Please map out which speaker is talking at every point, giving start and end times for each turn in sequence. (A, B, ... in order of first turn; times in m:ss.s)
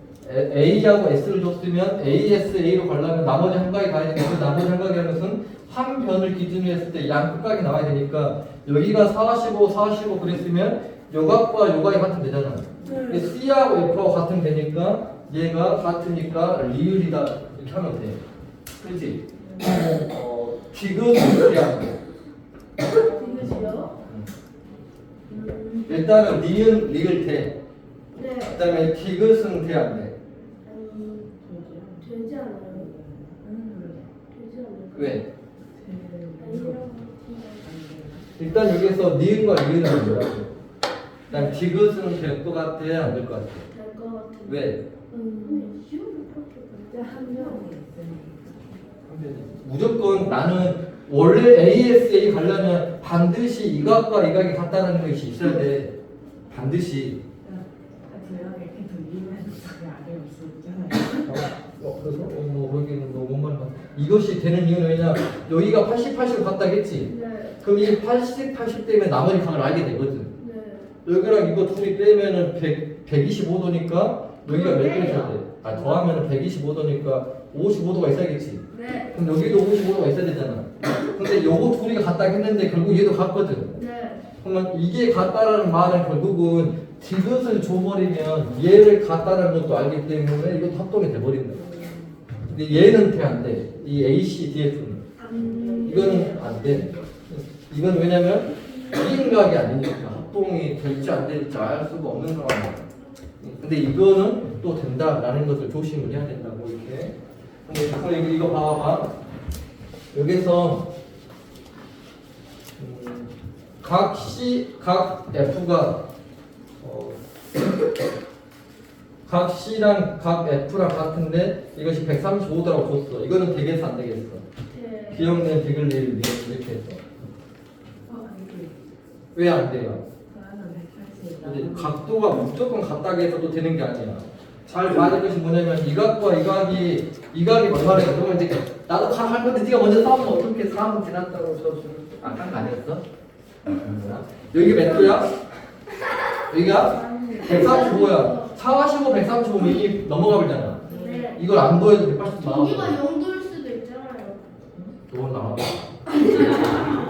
0:00.2-0:18.2 A
0:12.8-0:13.1 B
0:12.8-0:13.2 C
0:18.8-0:22.0 A
0:19.5-0:19.8 B
0:22.9-0:24.0 C
0:23.3-0:23.8 B
0:24.0-0:24.3 A
0:25.4-0:25.8 C
0:25.4-0:25.7 B
0:25.8-0:27.6 A
0:28.1-0:28.6 C
0:28.4-0:30.1 A
0:30.6-0:31.3 C
0:31.4-0:34.1 B
0:32.0-0:32.9 C
0:34.3-0:35.2 C
0:34.9-0:35.3 A
0:35.7-0:36.9 B
0:36.4-0:37.6 C
0:37.6-0:38.3 B
0:38.4-0:40.6 A
0:41.3-0:43.7 A
0:43.7-0:47.6 C
0:44.4-0:44.8 A
0:46.9-0:48.7 B
0:49.0-0:55.9 A
0:56.5-0:57.2 A
0:57.4-1:01.3 B
1:01.2-1:10.4 A
1:07.1-1:07.6 C
1:10.4-1:10.9 C
1:11.0-1:23.8 A
1:14.4-1:16.0 C
1:18.7-1:19.2 C
1:23.7-1:24.2 C
1:24.4-1:31.7 A
1:31.6-1:32.2 B
1:32.5-1:35.0 A
1:35.2-1:36.8 C
1:35.4-1:37.0 B
1:35.8-1:42.9 A
1:43.4-1:49.1 A
1:50.1-1:50.9 A
1:52.8-1:56.0 A
1:56.8-1:57.2 A
1:59.2-2:04.4 A
2:04.7-2:05.4 C
2:05.1-2:07.0 A
2:08.1-2:08.7 B
2:09.3-2:10.0 A
2:10.3-2:12.0 B
2:11.4-2:23.0 A
2:23.6-2:25.3 A
2:26.5-2:33.0 A
2:26.7-2:28.5 C
2:30.9-2:31.3 B
2:30.9-2:31.4 C
2:32.4-2:34.4 C
2:35.1-2:36.7 A
2:36.2-2:36.8 C